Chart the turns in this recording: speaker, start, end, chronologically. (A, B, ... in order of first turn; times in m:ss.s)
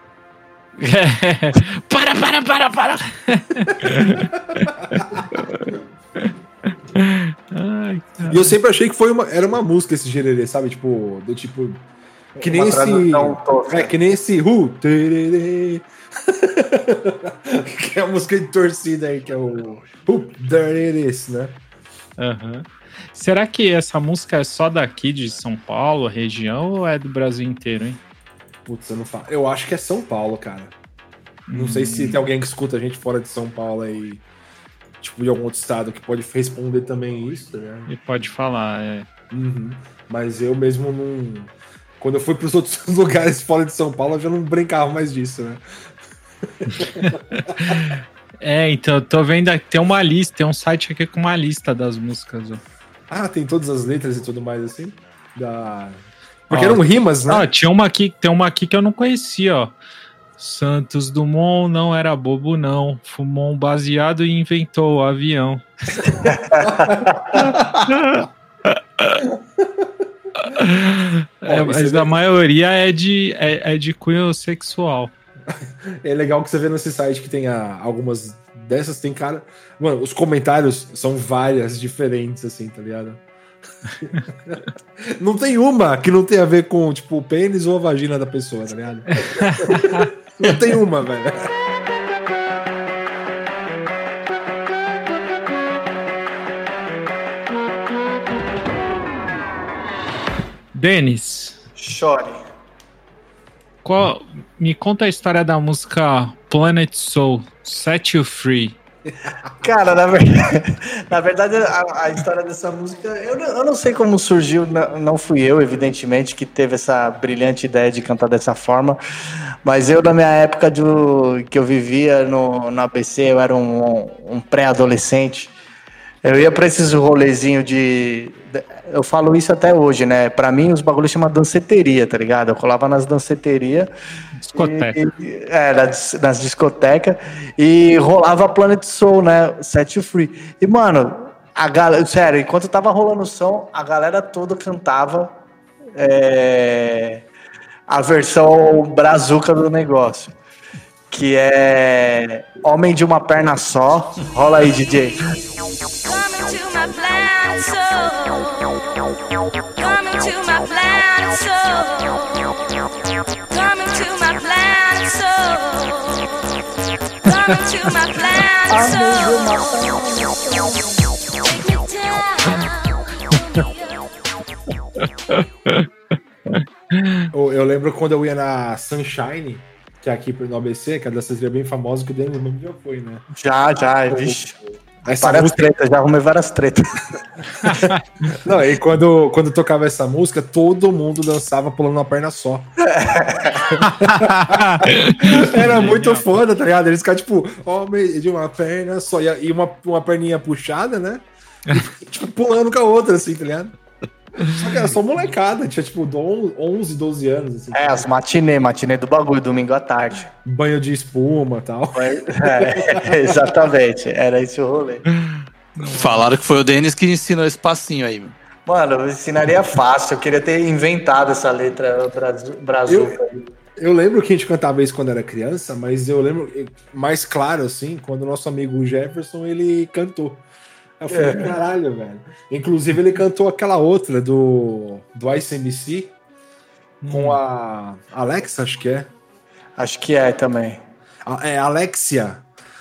0:00.8-0:06.3 A
0:04.9-0:05.2 B
0:06.9-0:08.5 A
0:08.3-0:11.8 B
0:12.4-0:21.6 B
0:12.4-0:13.9 C
0:22.2-0:28.0 A
0:28.6-0:30.8 B
0:31.5-0:32.2 A
0:31.5-0:34.2 B
0:35.0-0:37.9 B
0:37.9-0:39.0 A
0:39.3-0:45.6 B
0:46.5-0:47.5 B
0:46.8-0:47.0 A
0:47.5-0:52.6 A
0:53.1-0:57.5 B
0:56.5-0:59.7 A
1:00.4-1:05.6 A
1:06.2-1:07.3 C
1:06.6-1:07.8 B
1:07.9-1:09.2 A
1:09.3-1:09.9 B
1:10.4-1:15.1 A
1:11.4-1:12.1 B
1:15.6-1:23.2 B
1:24.0-1:31.5 B
1:29.2-1:30.1 A
1:40.7-1:41.6 A
1:41.8-1:42.4 C
1:43.8-1:48.8 A
1:49.6-1:59.0 C
1:59.6-2:05.5 C
2:06.2-2:13.9 C
2:14.4-2:15.0 A
2:14.5-2:25.4 C
2:26.0-2:27.2 C
2:27.9-2:30.3 C
2:31.1-2:35.2 C
2:36.0-2:38.9 D
2:39.8-2:42.6 D
2:43.5-2:46.5 D
2:47.2-2:50.0 D
2:48.7-2:51.0 C
2:51.4-2:54.1 D
2:55.3-2:55.9 A
2:56.5-2:57.3 A
2:57.3-3:03.2 B
3:03.4-3:04.6 C
3:04.1-3:04.4 B
3:05.0-3:05.7 B
3:05.1-3:06.8 C
3:07.6-3:08.0 A
3:08.3-3:12.7 B
3:12.9-3:13.7 C
3:13.8-3:23.8 B
3:13.8-3:16.3 A
3:24.4-3:28.1 B
3:27.7-3:30.3 C
3:30.4-3:33.4 B
3:31.9-3:35.0 C
3:35.2-3:36.2 A
3:35.9-3:38.3 E
3:38.6-3:43.4 C
3:42.9-3:43.2 B
3:43.8-3:50.4 B
3:51.0-3:56.1 B
3:51.1-3:51.5 C
3:57.0-3:57.4 A
3:57.1-3:59.1 B
3:59.8-4:00.8 C
4:01.2-4:02.4 B